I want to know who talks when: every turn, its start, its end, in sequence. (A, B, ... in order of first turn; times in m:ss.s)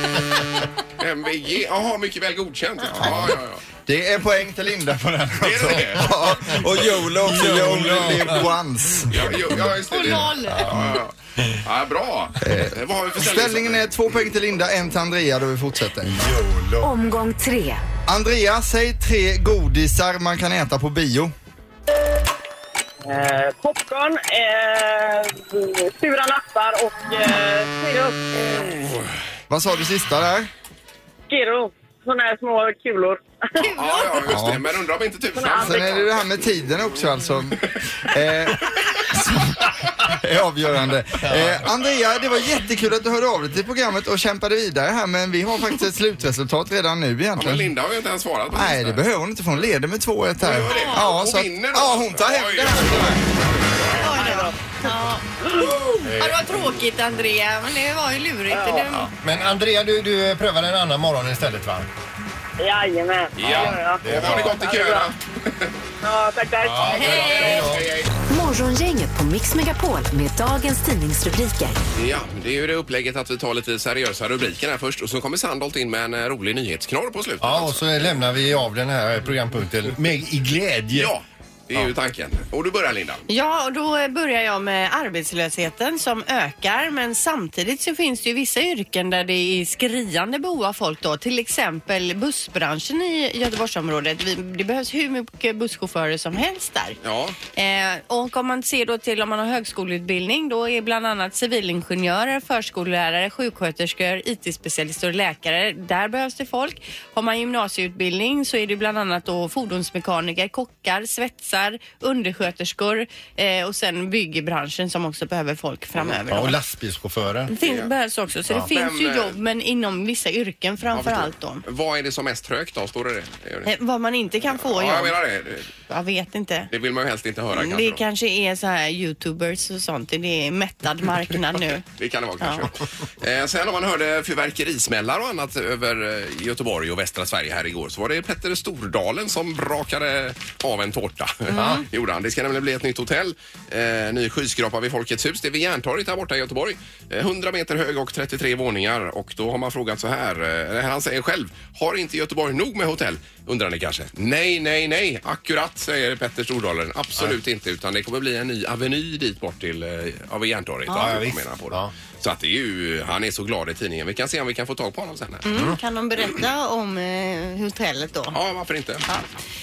0:01.0-0:03.6 A
0:03.0-0:09.4 B
0:05.4-0:06.7 A
0:05.9-0:06.6 C
0:07.2-0:08.5 C
0:09.0-0:09.6 C
0:09.1-0:13.8 A
0:09.9-0:10.7 D
0:10.3-0:11.0 C
0:12.4-0:16.2 B
0:16.0-0:16.9 C
0:16.8-0:17.8 E
0:18.1-0:21.3 B
0:23.0-0:28.8 F
0:29.5-0:30.5 B
0:31.3-0:33.6 F
0:33.6-0:34.2 D
0:33.6-0:36.2 A
0:34.3-0:34.6 B
0:35.3-0:36.1 F
0:35.5-0:47.7 B
0:41.2-0:41.6 C
0:47.4-0:49.0 A
0:48.5-0:53.2 B
0:50.4-0:53.4 A
0:50.4-0:51.1 D
0:54.0-0:59.1 D
0:54.0-0:54.9 F
0:56.0-0:56.5 C
0:58.5-0:59.0 F
0:58.9-1:01.9 C
1:02.6-1:05.1 F
1:03.4-1:05.7 A
1:03.5-1:04.6 C
1:06.0-1:07.7 F
1:06.6-1:07.9 C
1:06.8-1:08.1 A
1:06.9-1:07.5 D
1:08.3-1:11.8 E
1:11.9-1:17.8 A
1:17.4-1:21.1 C
1:20.9-1:23.2 A
1:23.3-1:37.0 D
1:37.0-1:37.4 A
1:37.5-1:56.6 D
1:56.3-1:57.5 C
1:57.5-2:01.6 D
1:57.6-1:57.9 A
1:58.7-1:59.4 A
2:00.9-2:03.7 A
2:03.6-2:05.2 D
2:04.5-2:05.7 A
2:05.9-2:06.7 D
2:06.7-2:08.0 A
2:07.5-2:11.8 D
2:11.9-2:45.4 A
2:12.4-2:12.6 D
2:21.5-2:21.8 D
2:21.5-2:21.8 C
2:40.9-2:41.2 D
2:40.9-2:41.9 C
2:45.4-2:48.4 D
2:48.3-2:49.0 A